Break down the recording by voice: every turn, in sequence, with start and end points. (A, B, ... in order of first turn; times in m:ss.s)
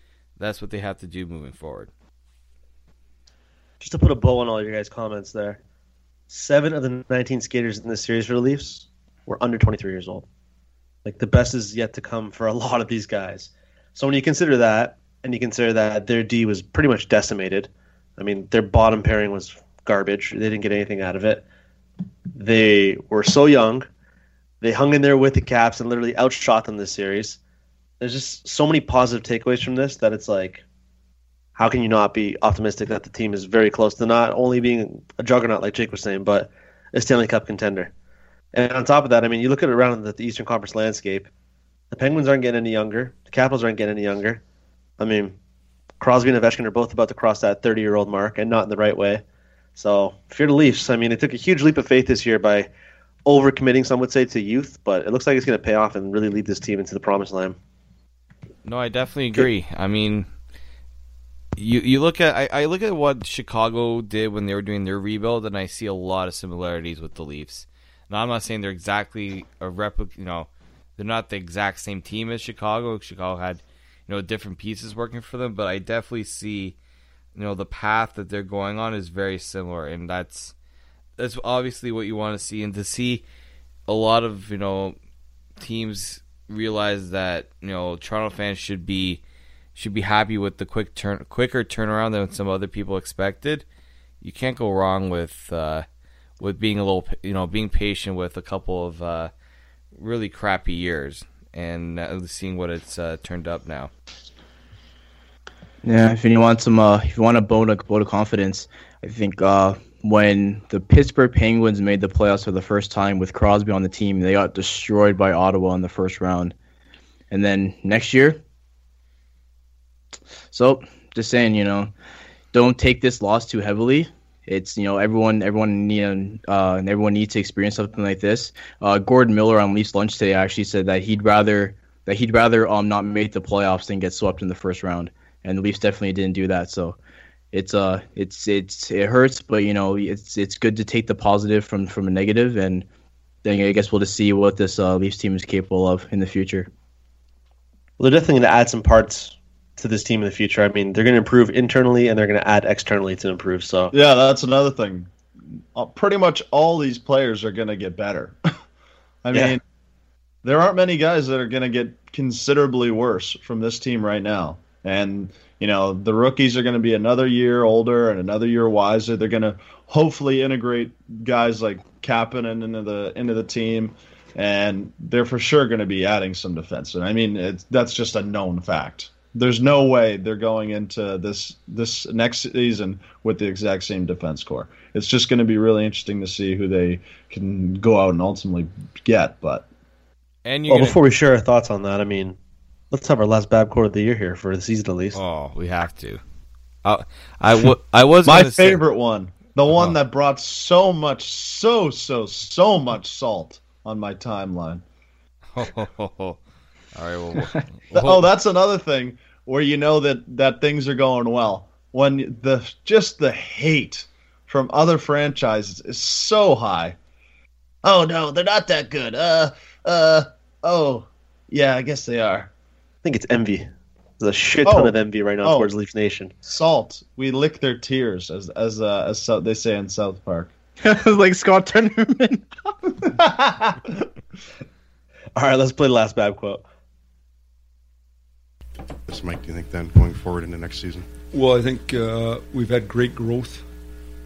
0:00.4-0:01.9 A
0:03.8-0:05.6 B
0:06.3-0:10.2 B
0:11.0-0:21.4 B
0:22.3-0:23.9 B
0:24.6-0:27.4 B
0:28.0-0:30.6 B
0:31.6-0:37.9 B
0:38.5-0:41.3 B
0:41.9-0:44.4 B
0:45.0-0:45.4 B
0:46.0-0:49.2 B
0:49.8-0:52.7 B
0:53.2-0:57.6 B
0:58.6-1:00.3 A
1:01.6-1:16.8 A
1:17.3-1:20.5 A
1:21.2-1:23.2 A
1:23.9-1:25.0 A
1:25.6-1:29.2 A
1:29.8-1:33.6 A
1:34.2-1:35.8 A
1:36.4-1:39.3 A
1:39.9-1:43.9 A
1:45.8-1:56.5 C
1:57.3-1:58.4 C
2:00.5-2:01.9 C
2:02.5-2:17.0 C
2:17.5-2:22.8 C
2:23.4-2:26.7 C
2:28.0-2:33.9 B
2:33.9-2:35.1 D
2:35.7-2:38.4 D
2:39.2-2:39.6 D
2:39.3-2:39.6 B
2:40.4-3:09.6 D
3:10.4-3:11.0 A
3:10.7-3:12.4 B
3:12.9-3:15.2 B
3:15.1-3:16.2 A
3:16.8-3:18.8 A
3:18.2-3:24.8 D
3:25.5-3:26.4 A
3:26.9-3:28.3 A
3:27.9-3:37.0 D
3:37.8-3:42.5 D
3:43.0-3:46.3 B
3:44.6-3:45.7 D
3:46.4-3:50.5 D
3:50.8-3:52.4 C
3:53.0-3:54.1 D
3:55.4-3:56.6 B
3:59.1-4:01.1 E
4:01.3-4:03.6 F